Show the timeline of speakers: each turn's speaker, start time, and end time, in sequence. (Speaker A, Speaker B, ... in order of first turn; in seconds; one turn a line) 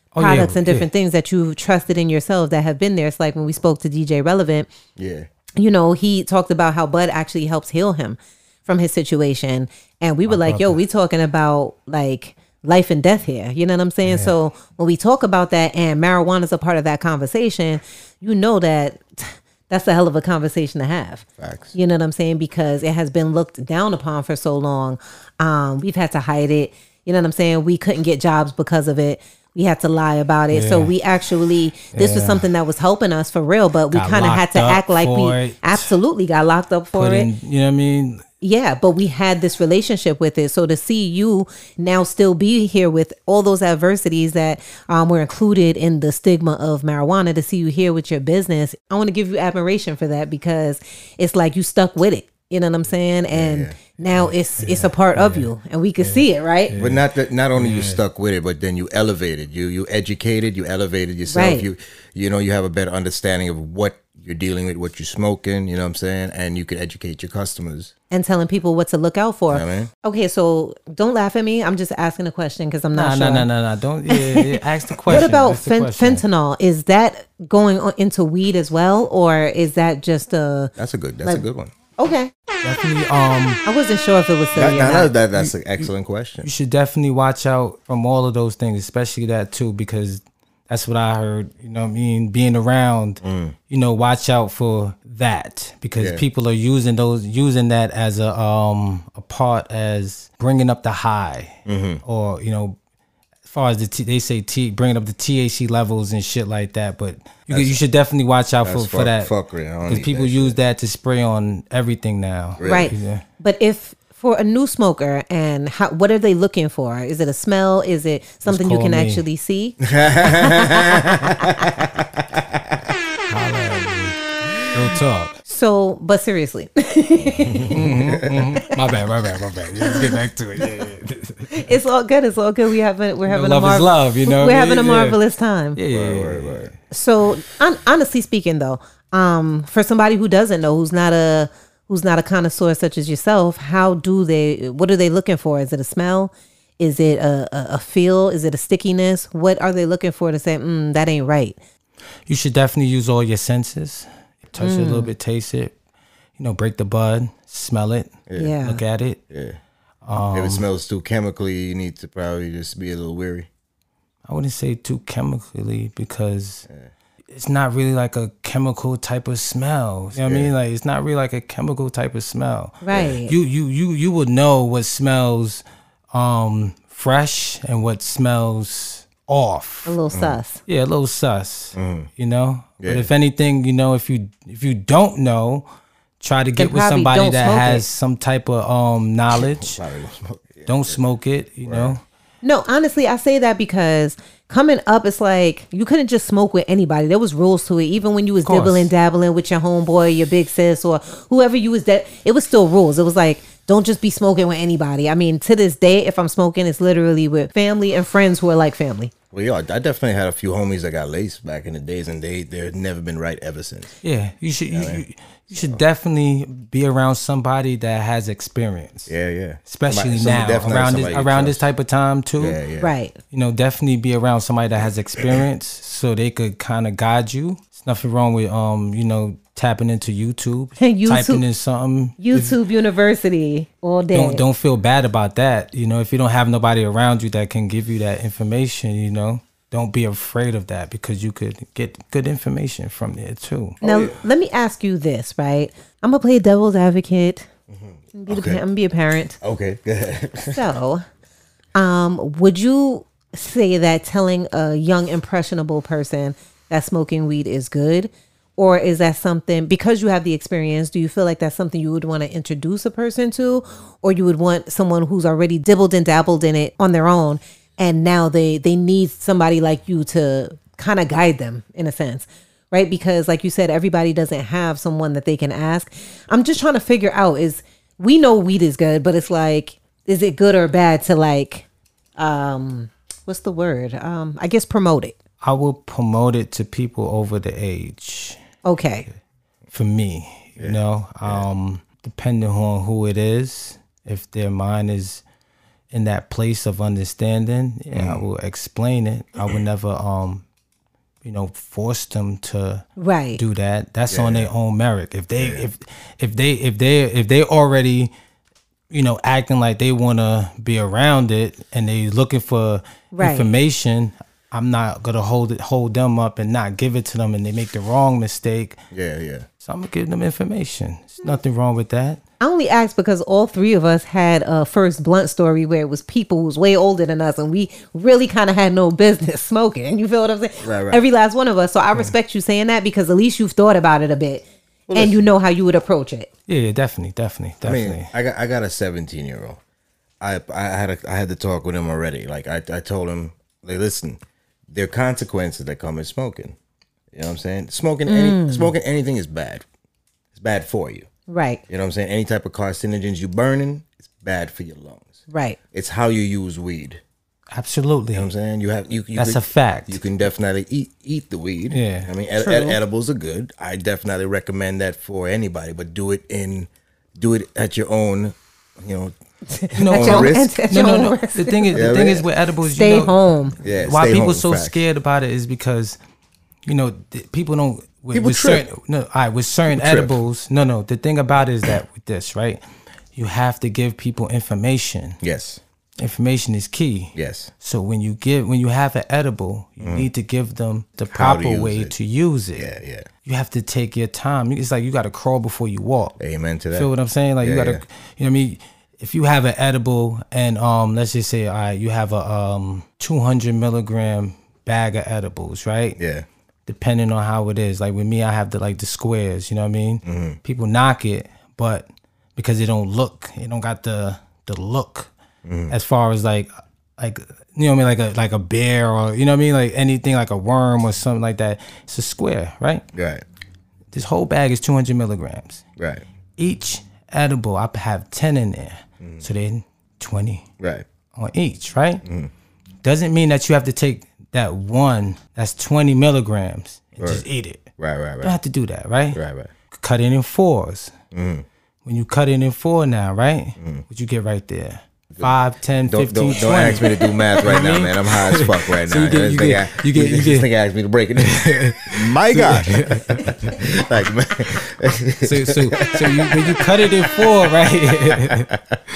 Speaker A: 0.1-0.9
Speaker B: 0.2-4.7
Speaker C: 5.0-5.3
Speaker B: 5.6-37.3
Speaker A: 10.3-10.8
Speaker A: 14.0-14.3
Speaker C: 21.4-21.7
Speaker A: 30.5-30.9
Speaker A: 31.9-32.5
Speaker A: 33.9-36.0
Speaker A: 36.9-38.2
Speaker B: 38.4-56.7
Speaker C: 53.3-53.8
Speaker A: 54.6-55.5
Speaker A: 56.0-58.0
Speaker C: 56.8-67.9
Speaker B: 61.3-61.7
Speaker B: 68.1-73.5
Speaker C: 69.5-69.9
Speaker A: 72.9-76.2
Speaker B: 74.1-81.4
Speaker C: 80.8-81.7
Speaker B: 82.0-82.3
Speaker A: 82.6-83.6
Speaker B: 83.6-85.1
Speaker C: 84.5-86.5
Speaker A: 86.4-102.8
Speaker C: 93.2-93.5
Speaker C: 96.0-96.2
Speaker C: 101.7-102.0
Speaker A: 103.5-109.3
Speaker C: 107.5-107.8
Speaker C: 108.6-110.6
Speaker A: 109.9-113.2
Speaker C: 112.6-112.9
Speaker B: 112.6-121.7
Speaker A: 118.5-119.2
Speaker C: 119.8-122.8
Speaker A: 123.3-125.4
Speaker B: 125.5-127.7
Speaker C: 127.3-128.4
Speaker A: 127.7-131.7
Speaker B: 131.5-135.8
Speaker A: 133.3-135.2
Speaker A: 135.8-136.7
Speaker C: 135.9-136.7
Speaker B: 136.9-151.6
Speaker A: 152.3-155.7
Speaker B: 154.6-155.1
Speaker A: 156.4-159.2
Speaker B: 158.4-158.8
Speaker C: 159.3-159.6
Speaker A: 160.1-160.6
Speaker C: 160.3-163.5
Speaker A: 164.2-166.7
Speaker A: 167.3-180.0
Speaker C: 170.2-170.5
Speaker B: 172.8-173.3
Speaker C: 172.9-173.2
Speaker B: 179.9-180.6
Speaker C: 180.1-180.4
Speaker A: 180.7-185.7
Speaker C: 181.7-182.1
Speaker C: 182.8-183.1
Speaker A: 186.2-189.8
Speaker B: 186.6-187.8
Speaker C: 189.3-191.0
Speaker A: 190.7-192.0
Speaker C: 191.6-191.9
Speaker B: 192.4-209.1
Speaker A: 198.4-198.9
Speaker C: 209.3-213.9
Speaker A: 214.0-219.1
Speaker C: 214.7-215.8
Speaker C: 219.1-221.6
Speaker A: 219.7-222.6
Speaker C: 222.4-222.9
Speaker B: 222.8-223.2
Speaker A: 223.3-232.6
Speaker C: 224.8-225.4
Speaker B: 230.8-231.4
Speaker B: 232.2-234.4
Speaker A: 234.1-243.8
Speaker C: 243.8-244.2
Speaker B: 243.8-247.5
Speaker C: 247.7-248.6
Speaker B: 248.1-249.4
Speaker C: 249.4-250.7
Speaker B: 250.5-251.1
Speaker B: 251.7-285.1
Speaker A: 285.4-288.4
Speaker B: 288.6-289.1
Speaker A: 289.7-295.2
Speaker C: 290.6-291.5
Speaker A: 295.9-300.4
Speaker C: 297.9-298.2
Speaker A: 301.2-302.9
Speaker B: 303.0-303.4
Speaker A: 303.4-308.1
Speaker C: 304.1-304.5
Speaker C: 305.4-305.6
Speaker A: 308.9-318.8
Speaker B: 313.1-313.5
Speaker C: 318.9-319.4
Speaker A: 319.6-322.2
Speaker B: 322.4-336.3
Speaker C: 330.6-331.0
Speaker C: 334.9-335.3
Speaker A: 336.5-338.1
Speaker C: 337.6-339.6
Speaker C: 340.2-346.6
Speaker C: 347.1-349.6
Speaker B: 348.1-348.7
Speaker C: 350.3-351.1
Speaker B: 351.3-351.6
Speaker C: 351.7-355.2
Speaker B: 355.3-355.6
Speaker C: 355.7-357.0
Speaker A: 357.5-358.3
Speaker C: 358.1-369.1
Speaker A: 359.1-360.0
Speaker A: 361.7-362.1
Speaker B: 362.4-362.8
Speaker B: 369.5-371.7
Speaker A: 369.8-373.1
Speaker C: 369.9-370.5
Speaker C: 371.7-372.3
Speaker B: 372.6-373.6
Speaker C: 373.6-374.8
Speaker A: 373.9-376.0
Speaker A: 376.6-382.6
Speaker C: 378.1-378.6
Speaker C: 379.7-380.2
Speaker A: 383.1-385.2
Speaker C: 385.2-385.6
Speaker A: 386.0-392.7
Speaker C: 387.1-387.5
Speaker C: 389.8-390.1
Speaker C: 391.1-391.9
Speaker C: 392.6-393.1
Speaker A: 393.2-396.2
Speaker C: 396.2-396.9
Speaker A: 396.7-406.0
Speaker C: 397.4-397.8
Speaker C: 406.0-406.3
Speaker A: 406.7-415.1
Speaker C: 410.1-410.4
Speaker C: 415.4-415.7
Speaker A: 415.7-422.8
Speaker C: 422.9-423.2
Speaker A: 423.9-425.6
Speaker C: 425.8-426.0
Speaker A: 426.4-430.4
Speaker C: 430.6-430.8
Speaker A: 431.1-432.0
Speaker C: 432.0-432.3
Speaker A: 432.8-437.6
Speaker C: 437.8-438.4
Speaker A: 438.2-439.2
Speaker C: 439.1-439.5
Speaker A: 439.7-440.9
Speaker C: 441.1-441.4
Speaker A: 441.8-450.5
Speaker C: 443.6-443.8
Speaker C: 445.1-457.5
Speaker A: 451.2-453.6
Speaker A: 455.2-458.5
Speaker C: 458.1-458.8